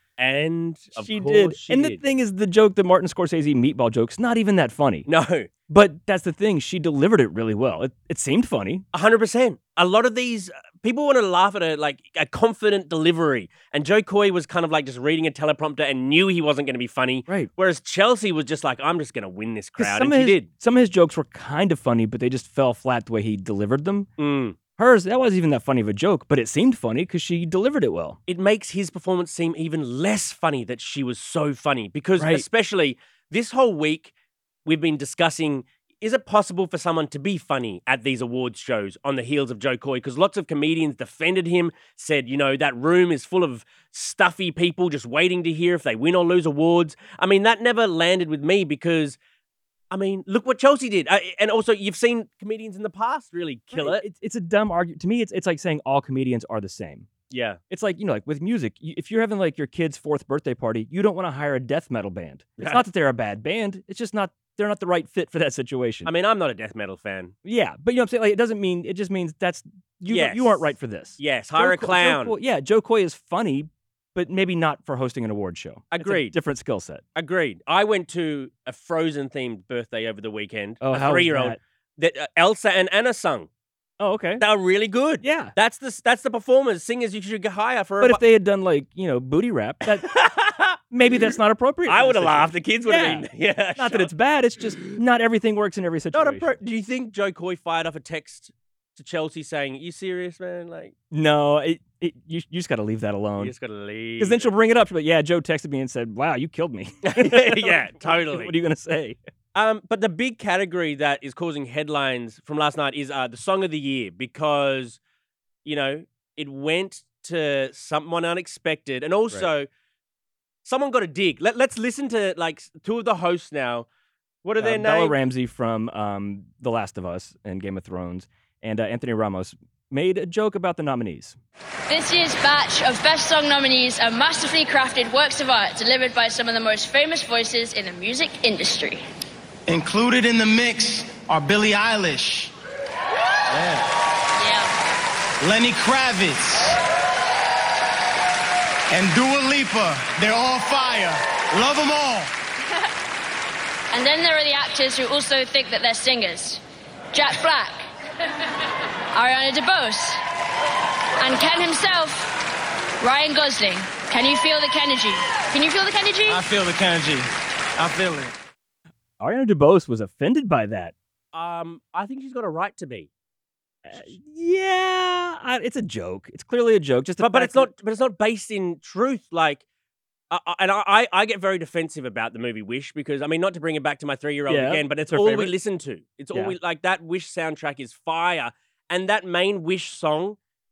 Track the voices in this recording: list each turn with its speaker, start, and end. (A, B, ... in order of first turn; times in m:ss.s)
0:00.2-0:02.0 A
0:01.0-0:05.1 B
0:05.0-0:05.5 A
0:05.7-0:08.8 B
0:08.9-0:20.5 A
0:19.8-0:24.1 B
0:24.2-0:24.6 A
0:24.8-0:28.2 B
0:28.3-0:34.1 A
0:32.2-0:32.4 B
0:34.6-0:49.2 A
0:49.9-0:54.0 A
0:53.8-0:57.1 B
0:57.3-0:57.6 A
0:57.7-1:06.1 B
1:02.6-1:02.8 A
1:06.0-1:07.3 A
1:07.4-1:17.0 B
1:10.1-1:12.3 A
1:15.9-1:16.3 A
1:17.1-1:23.5 A
1:20.8-1:21.6 B
1:24.0-1:24.4 B
1:24.4-1:28.2 A
1:25.2-1:25.5 B
1:28.0-1:30.0 B
1:29.9-1:35.0 A
1:30.9-1:33.2 B
1:33.8-1:36.5 B
1:36.1-1:40.9 A
1:41.1-1:43.5 B
1:43.4-1:44.5 A
1:44.2-1:49.2 B
1:47.0-1:48.5 A
1:49.5-1:55.0 A
1:55.6-1:59.7 A
2:00.6-2:03.9 A
2:04.4-2:05.2 A
2:04.6-2:11.4 B
2:11.9-2:19.0 C
2:19.7-2:22.5 D
2:23.5-2:23.9 D
2:24.4-2:24.7 C
2:25.4-2:26.8 D
2:28.9-2:32.3 D
2:33.9-2:36.6 C
2:37.1-2:37.8 C
2:39.1-2:40.2 C
2:41.2-2:42.3 C
2:43.0-2:46.4 C
2:46.3-2:48.3 D
2:49.2-2:50.9 B
2:51.3-2:53.1 A
2:53.9-2:57.7 B
2:57.2-2:59.6 A
3:00.3-3:10.4 A
3:04.5-3:05.5 B